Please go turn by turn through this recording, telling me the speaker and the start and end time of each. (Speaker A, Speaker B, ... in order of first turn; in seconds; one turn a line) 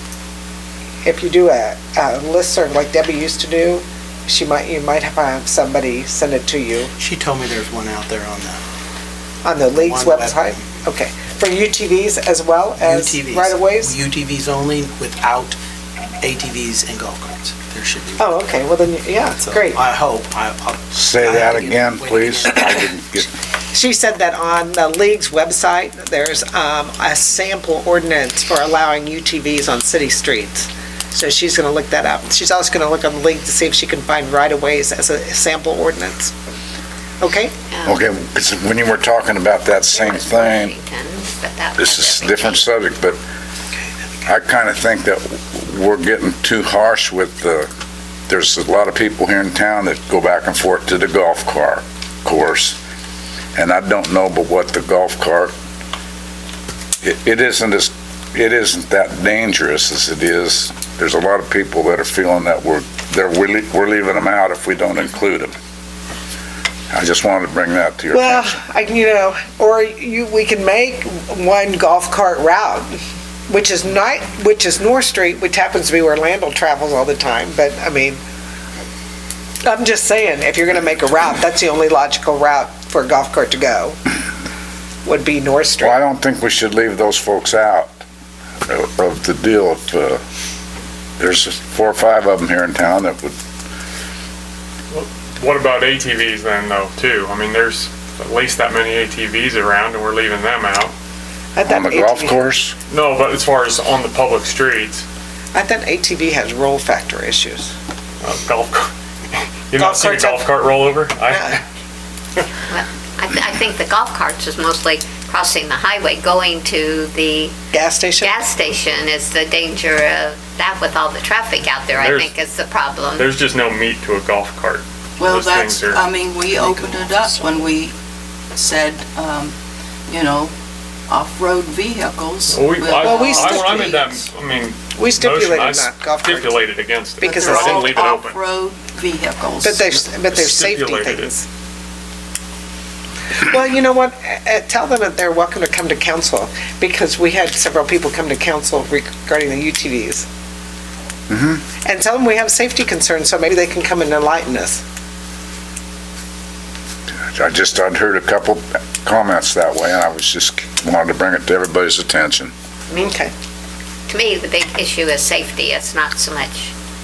Speaker A: 1.0-6.9
Speaker B: 6.9-8.6
Speaker A: 9.4-13.9
Speaker B: 9.7-10.8
Speaker B: 12.8-15.6
Speaker B: 16.2-18.4
Speaker A: 18.2-19.8
Speaker B: 19.3-22.9
Speaker C: 20.9-23.3
Speaker A: 23.7-36.3
Speaker A: 37.2-37.5
Speaker D: 37.7-38.0
Speaker C: 37.9-40.7
Speaker D: 39.9-42.6
Speaker C: 41.8-43.2
Speaker B: 43.7-44.3
Speaker C: 44.3-47.7
Speaker C: 48.3-52.8
Speaker C: 53.5-55.5
Speaker C: 57.0-65.5
Speaker C: 66.9-68.6
Speaker A: 68.1-73.0
Speaker A: 73.5-78.2
Speaker A: 79.7-84.0
Speaker A: 85.0-86.0
Speaker C: 85.8-88.0
Speaker C: 88.7-90.2
Speaker C: 91.2-93.3
Speaker E: 94.9-100.9
Speaker A: 101.5-102.4
Speaker C: 101.7-102.8
Speaker E: 102.9-105.0
Speaker A: 105.5-107.7
Speaker E: 108.2-108.9
Speaker E: 109.7-111.6
Speaker A: 109.8-110.4
Speaker A: 111.3-111.6
Speaker D: 112.7-117.5
Speaker A: 117.7-118.4
Speaker D: 118.2-123.3
Speaker E: 121.9-122.3
Speaker E: 123.2-126.0
Speaker F: 125.2-127.9
Speaker B: 126.5-127.7
Speaker F: 128.5-129.5
Speaker F: 130.1-130.5
Speaker F: 131.1-134.2
Speaker E: 132.5-138.4
Speaker A: 133.0-133.9
Speaker A: 134.9-136.6
Speaker F: 137.2-139.9
Speaker A: 137.2-138.1
Speaker A: 139.6-141.4
Speaker E: 140.1-141.3
Speaker A: 143.4-150.2
Speaker C: 151.3-151.6
Speaker A: 151.8-154.8
Speaker C: 157.3-162.5
Speaker A: 162.9-163.3
Speaker D: 164.1-166.7